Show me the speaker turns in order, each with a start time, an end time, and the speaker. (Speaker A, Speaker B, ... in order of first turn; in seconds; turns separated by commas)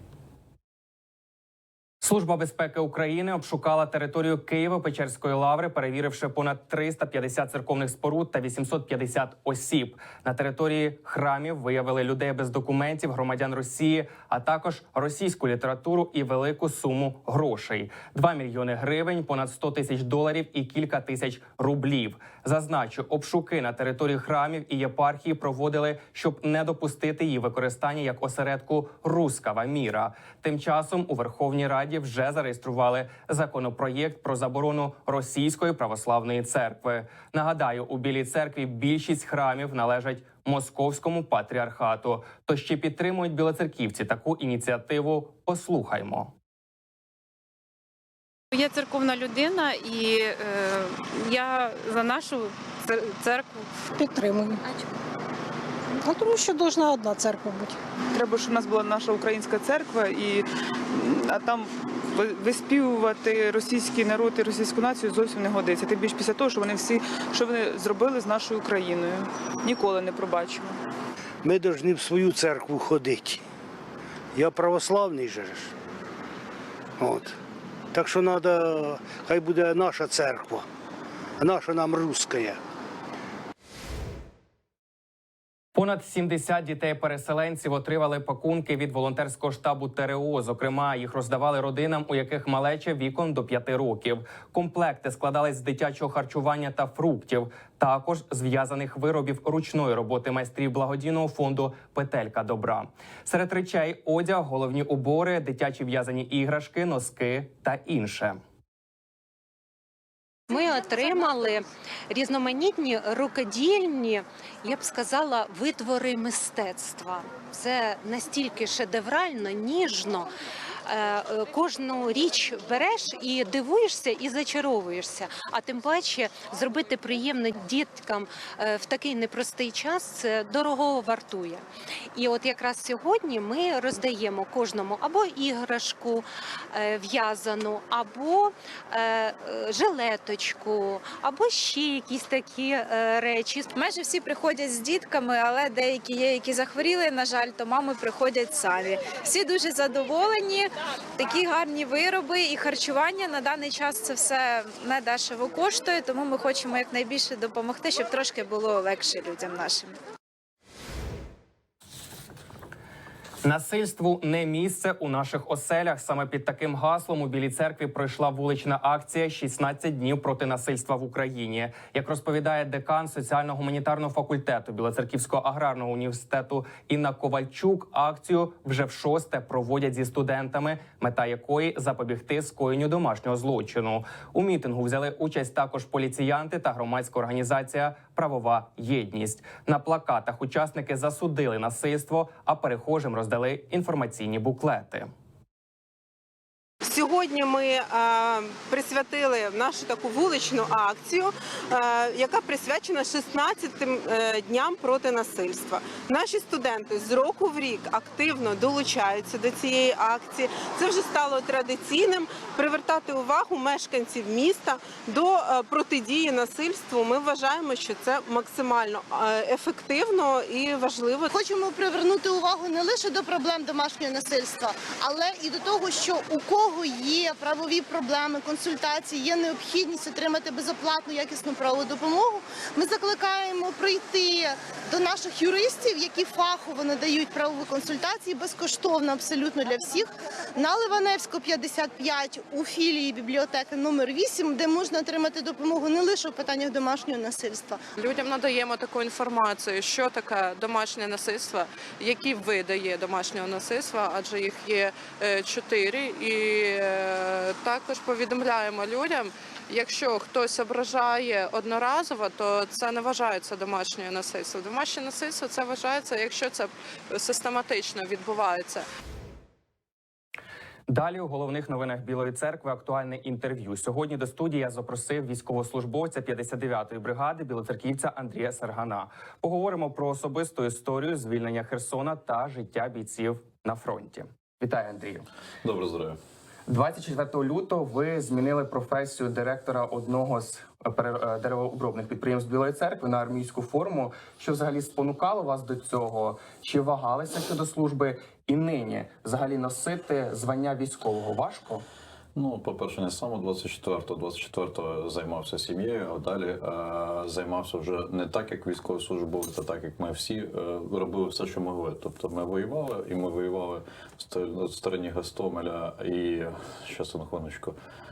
Speaker A: 2.0-46.3, Speaker B: 48.5-53.7, Speaker C: 54.0-54.6, Speaker C: 56.0-57.8, Speaker D: 58.1-70.8, Speaker E: 71.4-73.4, Speaker E: 74.3-75.7, Speaker E: 77.0-77.4, Speaker E: 77.9-80.7, Speaker E: 81.4-82.6, Speaker A: 85.8-108.4, Speaker F: 110.5-120.3, Speaker F: 120.9-131.6, Speaker F: 132.2-143.7, Speaker G: 143.7-159.9, Speaker A: 163.4-195.1, Speaker H: 196.8-221.3, Speaker I: 221.3-247.8, Speaker J: 248.0-268.9, Speaker A: 270.9-284.3, Speaker K: 284.6-285.3, Speaker L: 285.6-286.2, Speaker K: 286.7-301.9, Speaker L: 302.4-317.8